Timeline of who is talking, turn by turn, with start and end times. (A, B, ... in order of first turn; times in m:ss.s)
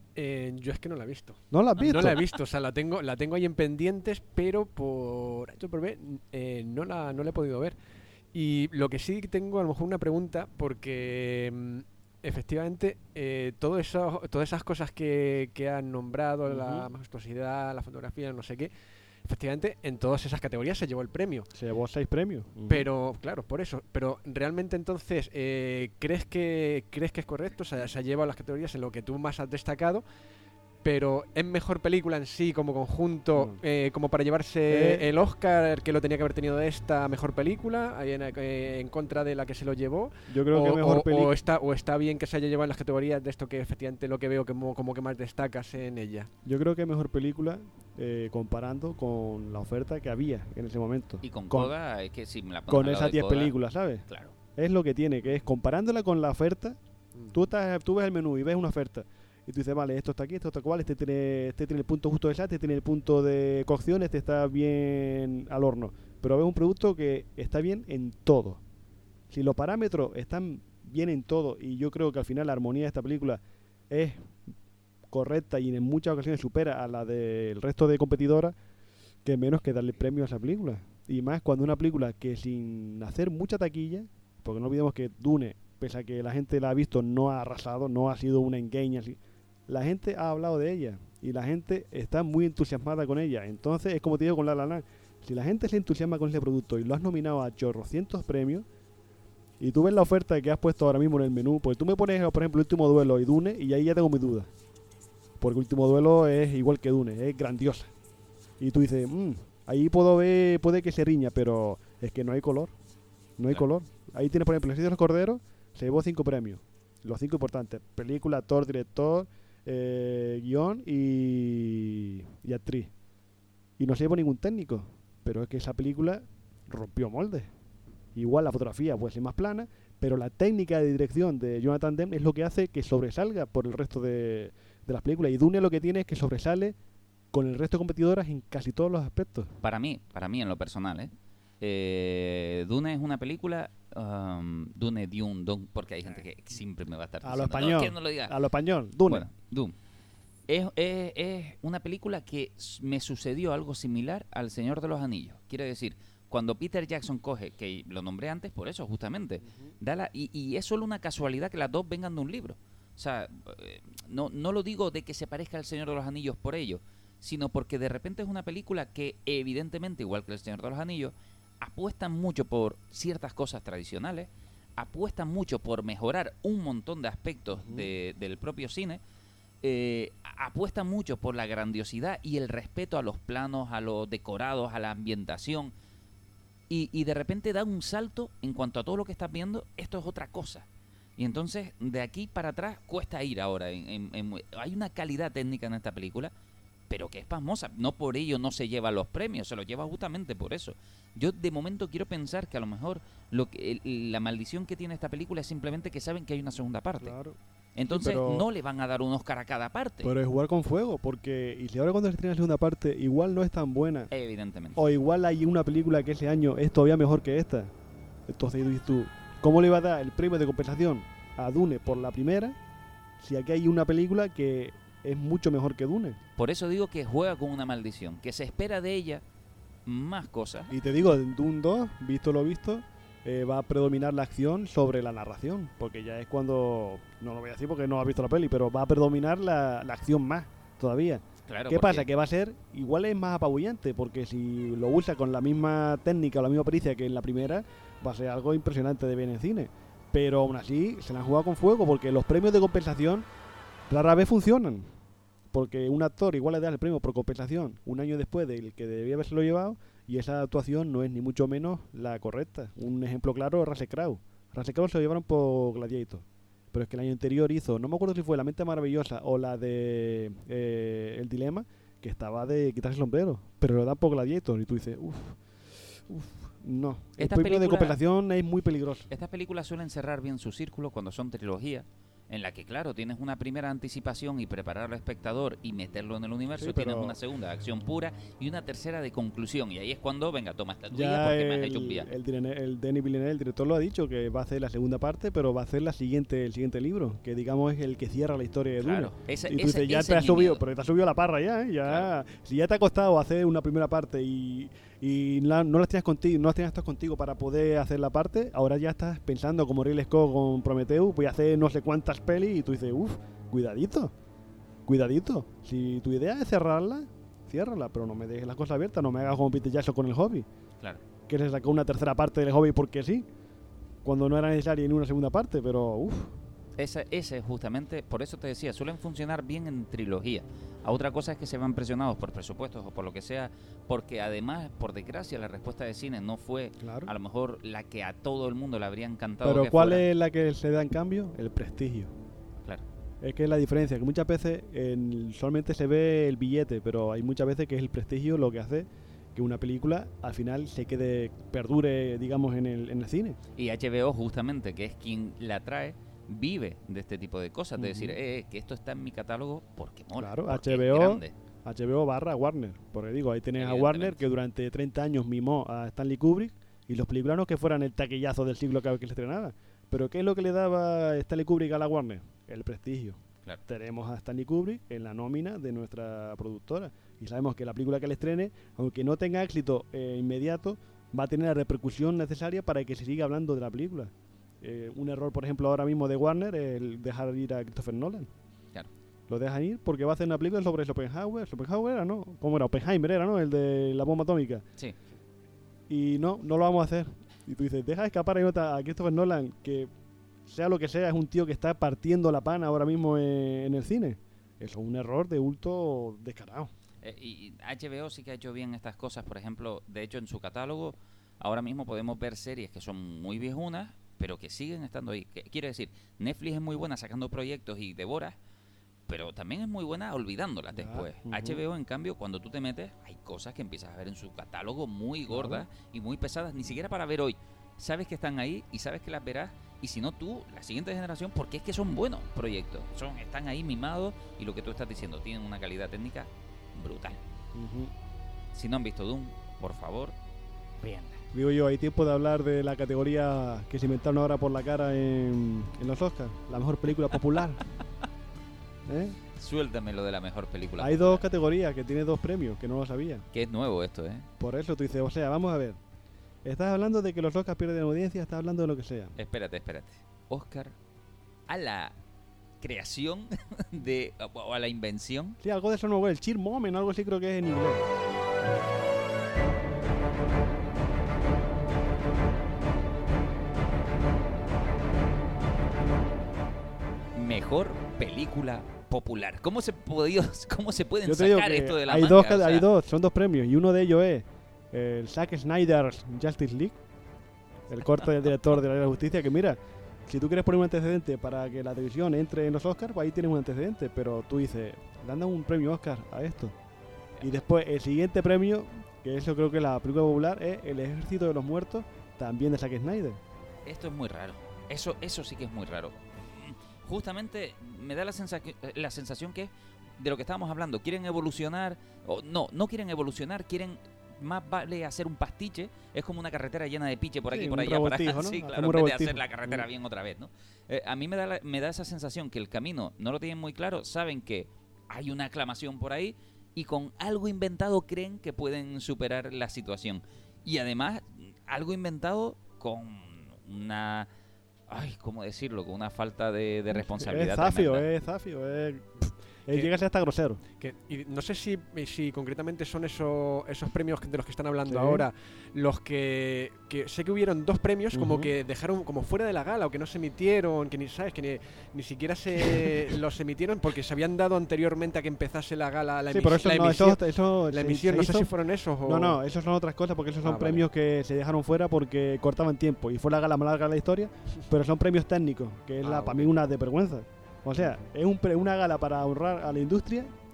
0:00.2-0:07.8 A
0:01.5-0:02.2 B
0:08.3-0:18.7 A
0:16.5-0:16.9 B
0:19.2-0:21.5 A
0:21.5-0:22.9 B
0:22.7-0:30.0 A
0:30.8-0:46.3 A
0:33.3-0:33.6 B
0:34.7-0:35.0 B
0:40.3-0:41.3 B
0:46.4-0:51.7 B
0:51.2-0:53.5 C
0:52.7-0:54.0 B
0:54.1-0:54.3 C
0:54.6-0:56.8 B
0:57.2-0:57.4 A
0:57.3-1:08.6 B
1:09.3-1:14.4 B
1:15.1-1:18.5 B
1:19.2-1:38.6 B
1:39.6-1:44.5 B
1:45.4-1:47.9 B
1:48.6-1:52.7 B
1:53.4-2:02.9 B
2:03.8-2:07.5 B
2:08.1-2:16.8 B
2:17.3-2:19.5 B
2:19.6-2:28.3 C
2:27.2-2:29.3 B
2:29.1-2:29.7 C
2:30.5-2:59.0 C
2:39.4-2:39.7 B
2:57.5-2:57.9 B
2:59.6-3:05.7 C
3:06.7-3:10.6 C
3:11.2-3:16.3 C
3:16.9-3:27.1 C
3:27.0-3:28.5 B
3:27.8-3:30.1 C
3:30.0-3:34.1 B
3:34.1-3:34.8 C
3:34.8-3:37.7 B
3:38.3-3:42.6 B
3:43.2-3:46.2 B
3:46.4-3:49.2 C
3:49.8-3:50.7 C
3:50.7-4:13.3 B
4:01.5-4:02.1 C
4:13.9-4:14.9 B
4:15.5-4:35.4 B
4:35.9-4:39.1 B
4:37.2-4:38.0 C
4:39.1-4:52.1 C
4:46.5-4:47.2 B
4:50.9-5:14.1 B
4:58.8-5:00.6 C
5:01.8-5:02.1 C
5:14.8-5:20.5 B
5:21.3-5:23.2 B
5:24.0-5:26.4 B
5:26.8-5:40.0 C
5:36.8-5:37.1 B
5:39.4-5:42.1 B
5:43.2-5:53.4 B
5:53.6-6:01.3 C
5:57.8-5:58.2 B
6:00.2-6:28.3 B
6:03.6-6:04.2 C
6:29.3-6:34.6 B
6:35.9-6:39.9 B
6:40.5-6:46.7 B
6:47.0-6:58.4 C
6:59.1-7:17.2 C
7:00.7-7:01.6 B
7:05.3-7:05.6 B
7:17.5-7:17.9 B
7:18.5-7:20.1 C
7:20.8-7:21.2 C
7:21.3-7:27.6 B
7:28.9-7:29.2 B
7:29.4-7:31.2 C
7:30.8-7:33.2 B
7:33.3-7:34.3 C
7:34.4-7:35.8 B
7:36.4-7:39.1 B
7:39.2-7:40.7 C
7:41.5-7:41.9 C
7:42.6-7:45.4 C
7:45.4-7:47.8 B
7:57.1-8:02.7 C
8:01.0-8:06.8 B
8:07.7-8:16.5 B
8:17.2-8:23.2 B
8:23.6-8:54.1 C
8:37.3-8:39.7 B
8:54.7-8:57.8 C
8:56.9-9:00.4 B
9:00.6-9:19.2 A
9:04.7-9:05.1 B
9:07.9-9:08.3 B
9:16.1-9:30.1 B
9:20.2-9:20.6 A
9:25.8-9:26.4 A
9:27.6-9:27.8 A